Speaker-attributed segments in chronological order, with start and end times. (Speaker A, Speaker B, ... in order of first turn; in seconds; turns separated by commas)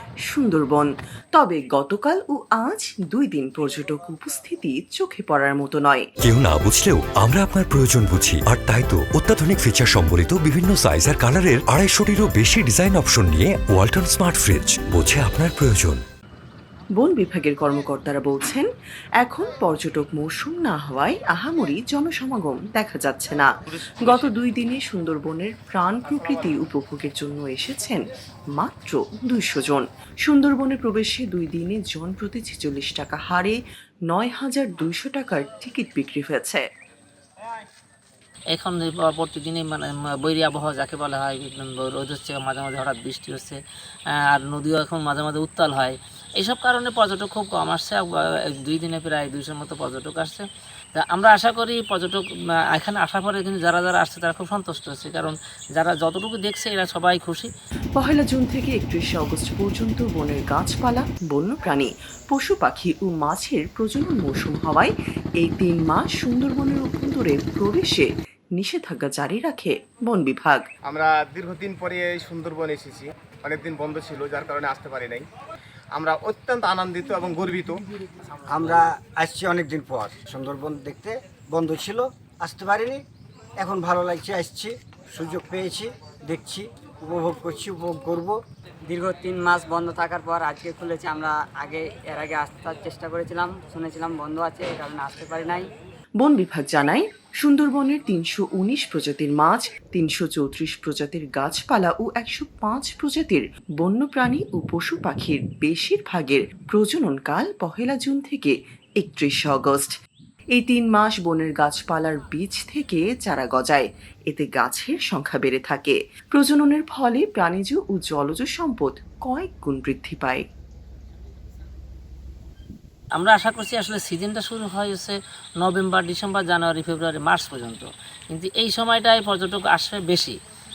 Speaker A: 0.3-6.1, Speaker B: 6.2-16.0, Speaker A: 16.9-18.7, Speaker A: 19.2-28.0, Speaker A: 28.5-36.6, Speaker C: 38.5-43.6, Speaker C: 44.1-57.5, Speaker A: 58.0-70.6, Speaker D: 70.8-75.3, Speaker D: 75.9-77.8, Speaker E: 78.5-83.0, Speaker E: 83.6-88.4, Speaker F: 88.9-95.7, Speaker A: 96.2-109.9, Speaker A: 110.5-120.4, Speaker C: 123.2-130.3